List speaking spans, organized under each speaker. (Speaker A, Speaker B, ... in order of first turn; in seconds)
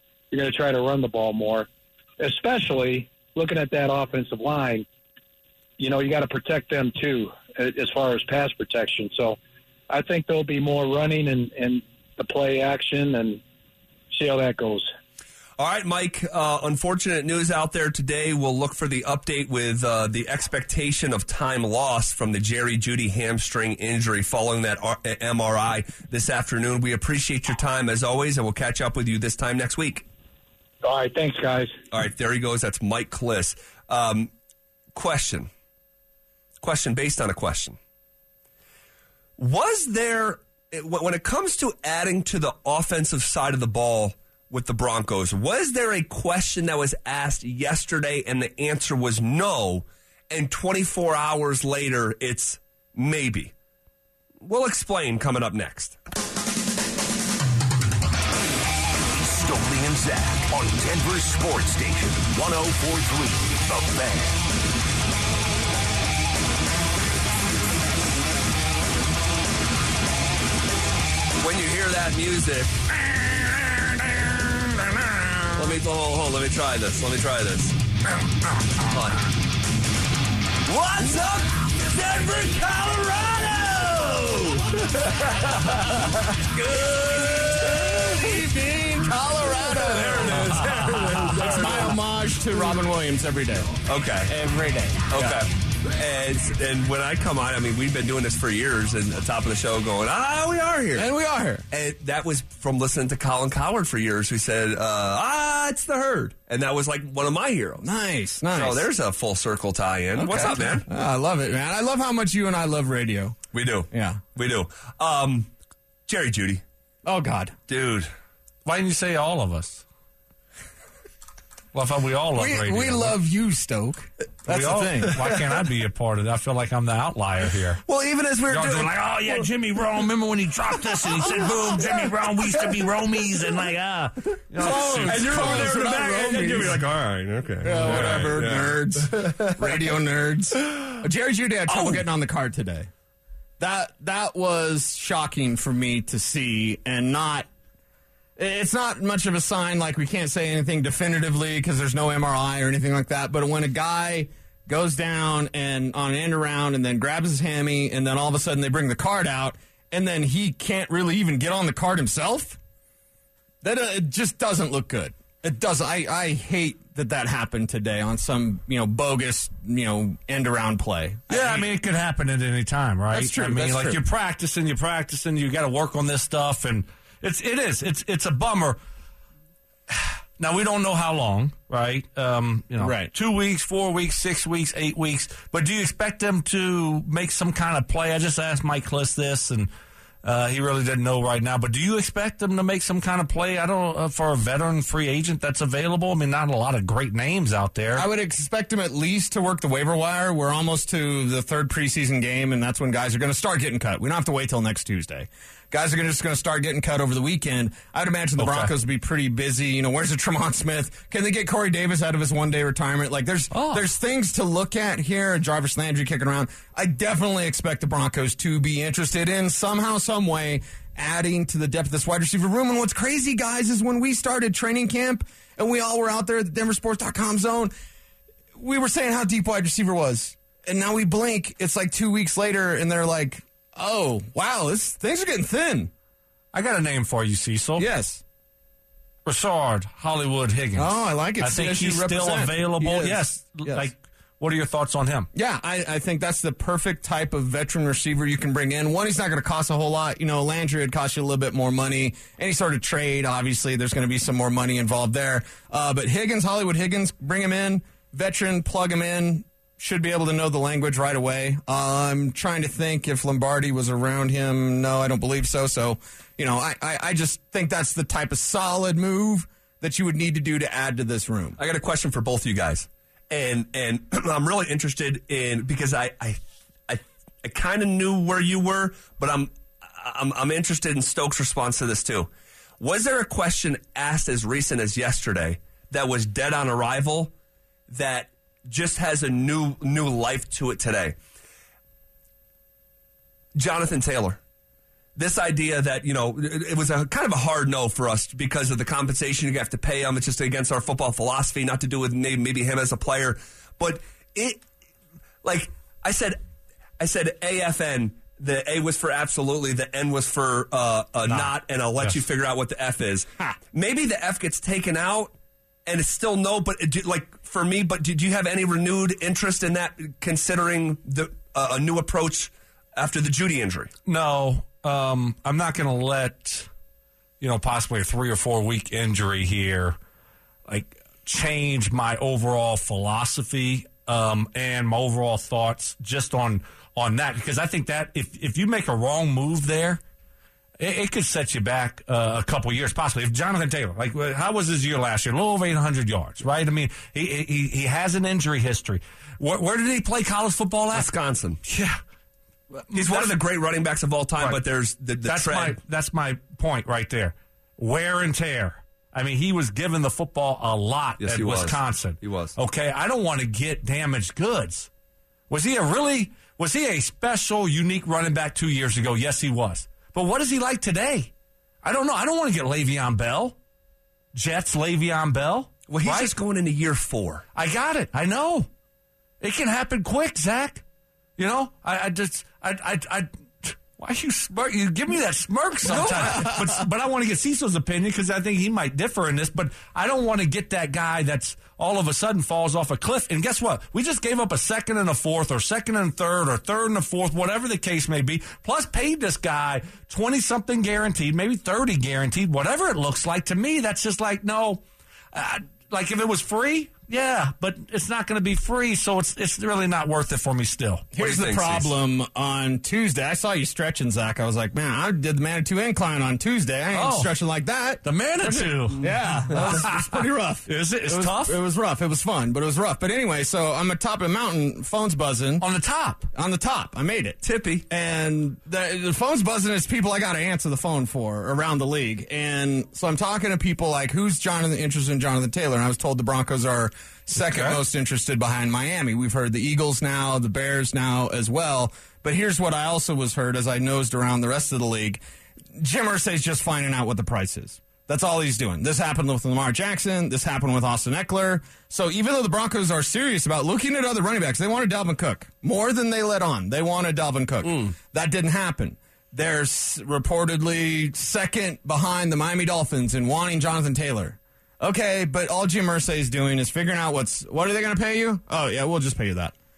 Speaker A: 0.3-1.7, 2.2-4.8, 5.8-9.4, 9.9-13.4, 14.1-14.9, 30.8-31.7
Speaker B: 15.6-30.0, 31.9-34.3, 34.9-35.5, 36.6-37.8, 39.4-53.5, 54.4-56.0, 71.4-73.6, 75.5-77.8, 78.8-79.2, 80.7-84.5, 86.5-88.2, 89.7-92.0, 93.8-94.3, 95.1-101.1, 101.7-107.8, 108.5-110.9, 113.5-115.5, 116.1-116.6, 117.7-118.1, 127.8-128.9, 131.0-131.3, 134.6-138.7, 271.6-287.3, 287.9-291.1, 293.5-294.4, 295.1-304.6, 305.4-306.4, 307.0-315.3, 315.9-323.9, 350.9-351.6, 352.9-355.8, 361.2-362.6, 375.9-377.4, 385.9-386.5, 411.2-411.9, 427.4-427.8
Speaker C: 59.1-64.4
Speaker D: 87.4-93.7, 94.3-95.4, 101.0-101.6, 107.8-108.8, 110.1-113.4, 113.9-114.2, 117.0-117.5, 122.3-125.4, 134.5-136.8, 137.6-142.9, 143.6-147.5, 148.4-162.6, 163.6-171.7, 173.1-174.0, 182.8-183.1, 197.9-227.7, 228.6-235.9, 237.8-238.2, 240.8-243.9, 245.3-271.6, 411.1-425.6, 426.3-445.2, 445.7-469.5
Speaker E: 91.0-91.3, 118.6-119.8, 121.7-123.2, 124.5-127.8, 128.5-135.6, 137.9-138.3, 171.3-178.8, 179.9-189.7, 190.2-198.1, 208.4-208.7, 213.5-213.9, 236.5-237.9, 239.2-245.3, 311.2-312.2, 324.1-326.7, 327.4-329.9, 330.7-340.0, 340.8-351.1, 351.6-352.0, 352.8-353.4, 355.2-364.9, 365.5-371.3, 371.8-373.6, 374.3-376.3, 377.5-378.7, 379.4-380.8, 381.4-411.1, 416.9-417.3, 418.0-421.6, 425.6-426.3, 437.5-437.8